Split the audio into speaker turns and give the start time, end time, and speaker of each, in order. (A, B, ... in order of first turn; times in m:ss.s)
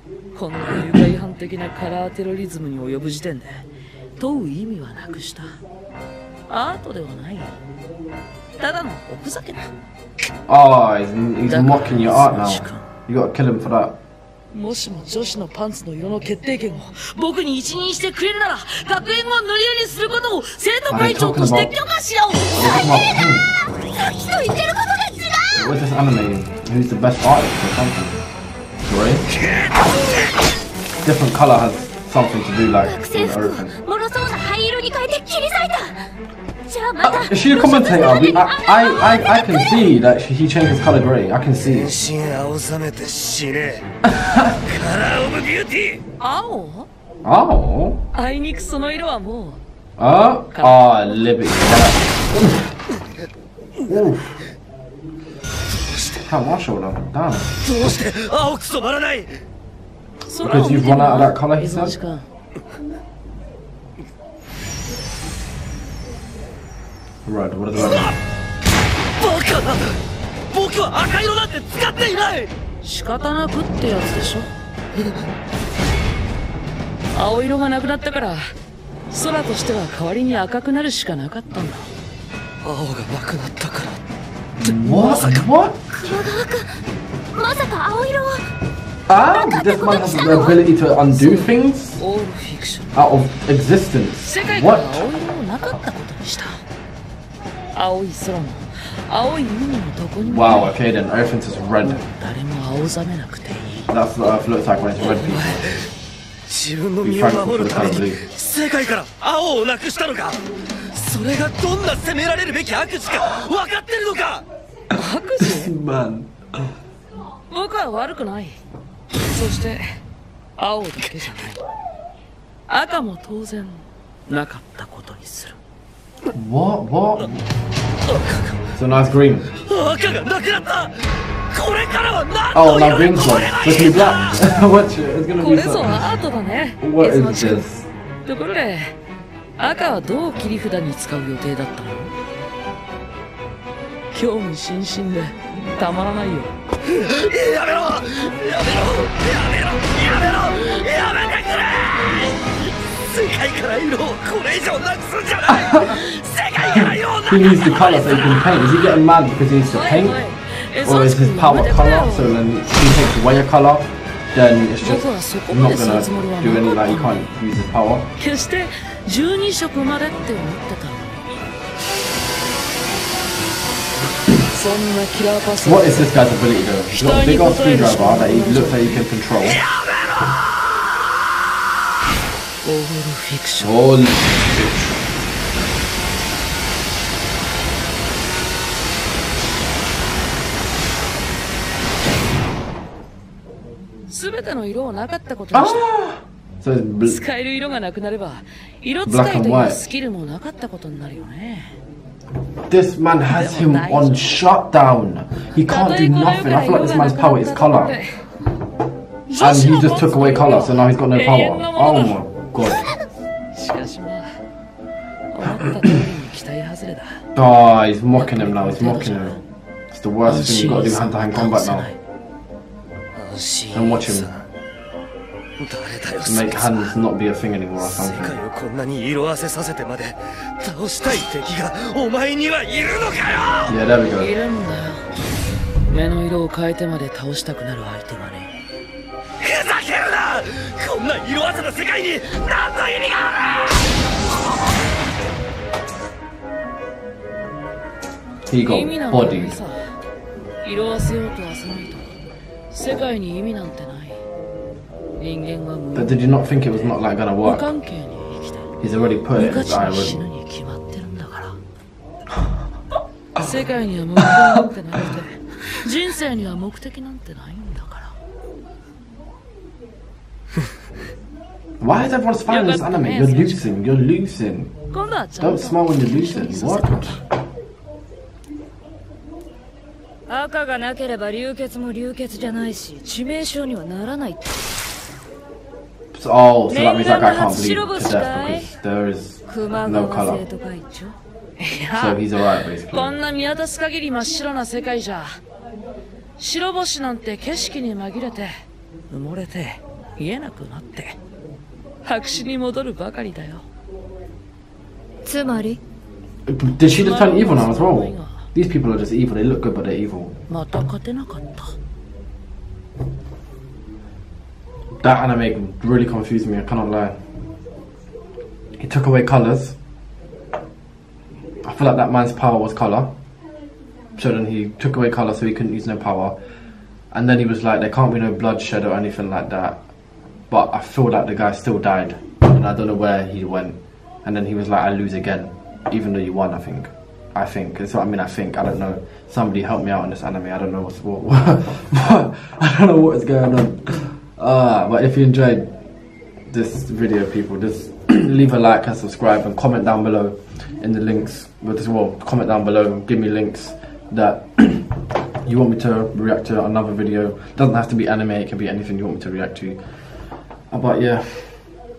0:00.3-0:05.6 A
0:06.5-0:07.6 A
0:08.6-0:09.7 A
0:10.5-0:14.0 B
0:11.4-0:12.8 A
0:14.5-0:22.8 A
0:20.9-0:21.7 B
0:22.5-0:23.5 B
0:22.6-0:23.2 C
0:23.9-0:25.7 C
0:25.6-0:28.2 B
0:28.8-0:29.3 B
0:31.0-0:33.7 B
0:32.8-0:36.0 C
0:36.6-0:39.9 C
0:37.0-0:41.9 B
0:41.6-0:43.8 D
0:44.1-0:44.5 B
0:44.4-0:46.0 D
0:46.2-0:46.9 A
0:47.2-0:48.0 B
0:48.1-0:49.6 A
0:50.0-0:52.7 B
0:50.5-0:51.3 A
0:53.9-0:54.5 B
0:55.8-0:56.2 D
0:56.2-0:57.5 B
0:57.6-0:59.4 D
1:00.2-1:02.2 A
1:00.4-1:02.0 B
1:07.2-1:08.2 B
1:07.7-1:08.2 D
1:09.2-1:12.5 D
1:12.8-1:14.5 A
1:17.1-1:18.4 A
1:19.1-1:21.9 A
1:22.6-1:24.0 D
1:24.6-1:26.2 B
1:25.2-1:25.5 D
1:25.9-1:26.7 C
1:27.3-1:28.4 C
1:29.1-1:32.0 B
1:29.2-1:30.6 C
1:31.1-1:33.0 A
1:32.9-1:35.0 B
1:34.2-1:36.6 A
1:37.7-1:40.8 A
1:40.2-1:42.0 B
1:41.8-1:43.9 A
1:43.9-1:45.8 B
1:45.0-1:45.9 D
1:46.5-1:54.4 D
1:47.0-1:48.2 B
1:54.9-1:55.7 A
1:55.4-1:56.3 B
1:57.5-1:58.6 A
1:59.3-1:59.8 A
2:00.6-2:01.6 A
2:02.7-2:05.6 A
2:06.3-2:07.4 B
2:08.1-2:08.6 D
2:08.7-2:09.5 B
2:09.5-2:14.4 D
2:12.5-2:16.1 B
2:15.4-2:17.6 A
2:16.8-2:17.9 B
2:18.2-2:19.0 A
2:19.6-2:22.1 A
2:24.1-2:26.5 A
2:26.8-2:38.6 D
2:36.7-2:40.2 B
2:39.7-2:42.4 A
2:40.8-2:48.1 B
2:44.8-2:47.3 A
2:48.2-2:51.3 A
2:54.4-2:56.1 A
2:55.6-2:59.6 B
2:56.9-2:59.0 A
2:59.5-3:00.3 D
3:02.6-3:03.9 A
3:03.6-3:04.9 B
3:14.1-3:15.9 A
3:15.5-3:17.2 B
3:17.0-3:21.7 A
3:19.0-3:19.8 B
3:22.7-3:28.0 B
3:23.3-3:24.5 A
3:25.6-3:28.2 A
3:29.3-3:32.2 A
3:29.4-3:32.9 B
3:33.5-3:34.4 A
3:35.3-3:37.2 A
3:37.3-3:39.4 B
3:38.2-3:39.4 A
3:39.9-3:41.9 B
3:40.2-3:42.0 A
3:43.1-3:44.5 D
3:43.7-3:44.3 B
3:45.6-3:47.0 D
3:46.2-3:48.4 B
3:47.8-3:53.8 D
3:53.6-3:54.3 B
3:54.1-3:55.0 A
3:55.9-3:58.5 A
3:59.4-4:03.9 D
4:08.5-4:09.6 B
4:08.6-4:09.9 A
4:10.6-4:12.2 A
4:12.7-4:14.2 A
4:15.2-4:18.7 A
4:15.9-4:17.7 B
4:18.8-4:20.2 B
4:19.3-4:21.6 A
4:23.4-4:28.1 A
4:31.8-4:34.7 B
4:32.5-4:33.8 A
4:34.9-4:37.2 A
4:35.4-4:37.2 B
4:40.3-4:44.5 E
4:46.1-4:50.4 B
4:46.7-4:48.7 E
4:49.4-4:51.2 E
4:51.6-4:52.3 A
4:51.9-4:53.2 B
4:52.9-4:55.4 A
4:56.4-4:58.5 A
4:59.1-5:01.2 A
5:02.0-5:03.6 A
5:05.2-5:05.8 E
5:06.5-5:10.4 B
5:06.9-5:08.4 A
5:10.5-5:11.8 A
5:15.0-5:17.2 B
5:18.8-5:19.8 B
5:21.6-5:23.1 B
5:24.2-5:26.4 B
5:27.1-5:29.8 B
5:30.5-5:45.7 B
5:46.5-5:54.9 B
5:55.4-5:59.8 B
6:00.7-6:01.7 B